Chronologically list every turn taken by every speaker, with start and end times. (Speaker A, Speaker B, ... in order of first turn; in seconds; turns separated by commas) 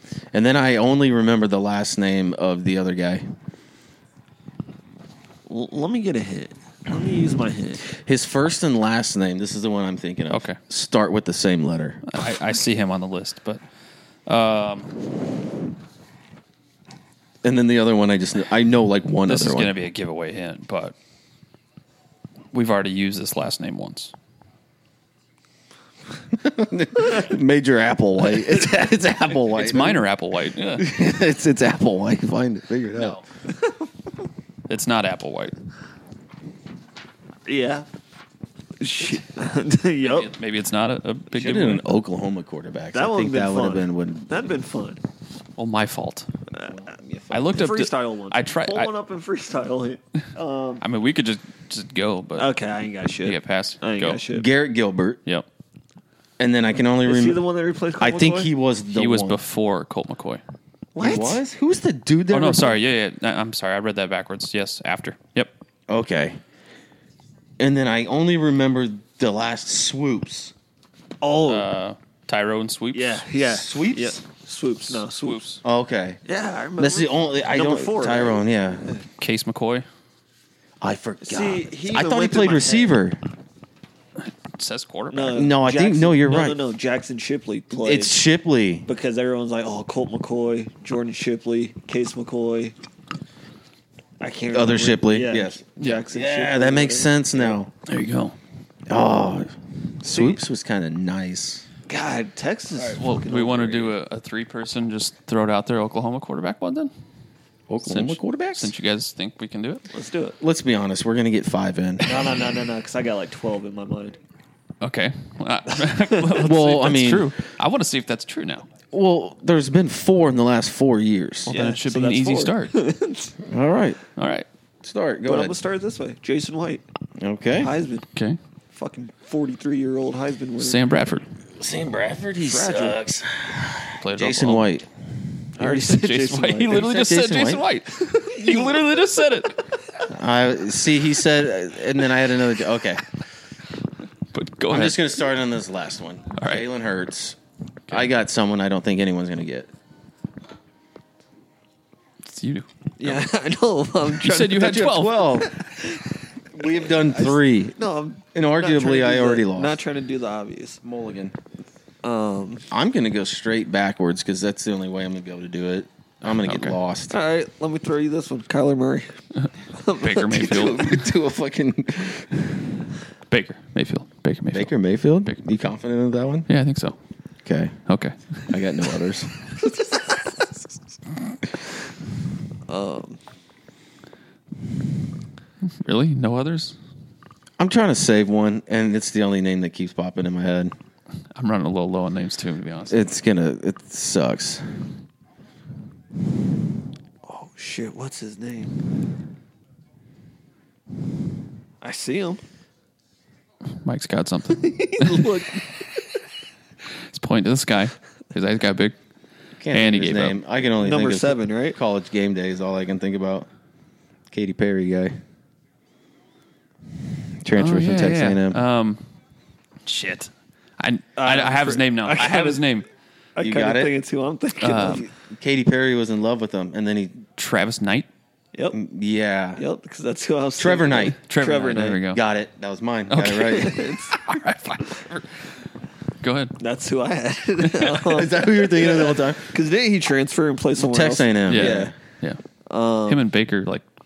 Speaker A: 0.3-3.2, Speaker B: 5.5-7.8, Speaker A: 7.8-12.0, Speaker C: 10.3-10.6, Speaker C: 12.1-13.6, Speaker C: 14.2-14.9, Speaker A: 17.4-19.7, Speaker C: 19.3-20.9, Speaker C: 22.5-24.1, Speaker A: 26.3-30.0, Speaker C: 29.5-30.9, Speaker A: 30.8-33.2, Speaker C: 32.9-33.2, Speaker C: 34.7-35.5, Speaker B: 37.4-37.9, Speaker B: 38.8-40.3, Speaker C: 40.0-42.0, Speaker A: 41.3-44.4, Speaker B: 42.9-45.0, Speaker C: 45.6-46.3, Speaker A: 46.6-47.6, Speaker C: 47.3-48.9, Speaker B: 47.5-50.8, Speaker C: 50.8-52.5, Speaker B: 52.4-54.5, Speaker C: 53.2-54.2, Speaker A: 54.3-55.2, Speaker A: 56.4-57.4, Speaker B: 57.0-58.5, Speaker A: 58.0-59.4, Speaker C: 58.9-60.4, Speaker B: 60.9-61.4, Speaker A: 61.0-62.8, Speaker C: 62.3-65.5, Speaker A: 65.9-66.4, Speaker A: 67.6-70.5, Speaker B: 71.2-71.7, Speaker C: 71.5-73.2, Speaker B: 72.9-75.6, Speaker A: 73.4-74.2, Speaker C: 75.0-75.6, Speaker A: 75.6-76.2, Speaker B: 76.2-79.0, Speaker A: 76.8-78.9, Speaker C: 79.2-79.8, Speaker A: 80.8-83.2, Speaker B: 81.2-83.0, Speaker C: 84.2-85.4, Speaker B: 85.1-88.2, Speaker A: 85.3-86.6, Speaker A: 87.7-88.9, Speaker B: 88.8-92.8, Speaker B: 94.2-97.6, Speaker A: 94.5-97.7, Speaker C: 95.8-96.0, Speaker C: 97.8-98.4, Speaker A: 98.9-101.6, Speaker B: 100.1-100.4, Speaker B: 101.9-104.0, Speaker C: 102.9-106.9, Speaker A: 107.7-108.7, Speaker C: 107.8-109.9, Speaker B: 109.9-110.4, Speaker A: 110.4-112.3, Speaker B: 112.0-114.2, Speaker C: 114.8-118.7, Speaker A: 116.3-117.3, Speaker A: 118.9-121.5, Speaker C: 121.5-122.8, Speaker B: 121.5-123.3, Speaker A: 123.4-124.0, Speaker C: 124.2-124.5, Speaker A: 124.8-125.6, Speaker B: 125.2-126.8, Speaker A: 127.2-127.7, Speaker B: 127.5-128.1, Speaker B: 128.7-130.8, Speaker C: 130.6-131.2, Speaker A: 131.6-134.9, Speaker B: 132.4-133.0, Speaker C: 134.0-134.7, Speaker B: 135.6-136.9, Speaker C: 135.6-139.7, Speaker A: 136.7-137.6, Speaker B: 138.0-138.9, Speaker A: 140.1-143.0, Speaker C: 144.3-145.0, Speaker A: 144.7-147.4, Speaker C: 146.4-146.6, Speaker A: 147.9-149.7, Speaker C: 152.2-153.3, Speaker B: 153.0-154.8, Speaker C: 154.1-155.5, Speaker A: 154.5-155.6, Speaker B: 155.5-160.8, Speaker A: 156.5-157.8, Speaker A: 158.3-159.8, Speaker A: 160.8-161.3, Speaker B: 162.0-162.7, Speaker A: 162.7-167.2, Speaker C: 166.2-166.8, Speaker B: 167.1-169.1, Speaker C: 169.4-171.1, Speaker B: 169.7-171.1, Speaker A: 170.7-172.4, Speaker C: 173.3-174.7, Speaker A: 174.5-176.5, Speaker C: 176.5-176.9, Speaker A: 177.4-177.8, Speaker C: 177.9-178.4, Speaker A: 178.5-179.5, Speaker B: 182.7-183.2, Speaker C: 185.8-186.8, Speaker A: 187.6-190.7, Speaker C: 191.3-193.0, Speaker A: 192.9-194.6, Speaker B: 197.2-198.8, Speaker B: 201.8-202.4, Speaker C: 203.8-205.4, Speaker B: 204.5-206.0, Speaker C: 207.1-208.9, Speaker A: 209.6-213.5, Speaker C: 209.7-210.4, Speaker B: 210.8-211.8, Speaker A: 214.3-215.2, Speaker A: 217.4-218.6, Speaker C: 217.6-219.0, Speaker C: 219.8-222.9, Speaker B: 221.2-222.6, Speaker B: 223.3-225.1, Speaker A: 223.4-223.9, Speaker C: 224.6-225.1, Speaker A: 225.2-227.2, Speaker C: 227.4-228.1, Speaker A: 228.7-229.6, Speaker B: 229.6-232.0, Speaker A: 230.6-231.2, Speaker C: 231.2-232.2, Speaker A: 232.1-233.8, Speaker C: 233.1-235.3, Speaker B: 233.5-234.2, Speaker C: 236.2-236.6, Speaker B: 236.6-241.9, Speaker C: 237.7-238.0, Speaker A: 238.0-239.5, Speaker A: 240.8-241.9, Speaker C: 241.5-242.4, Speaker B: 242.7-243.2, Speaker C: 243.1-243.8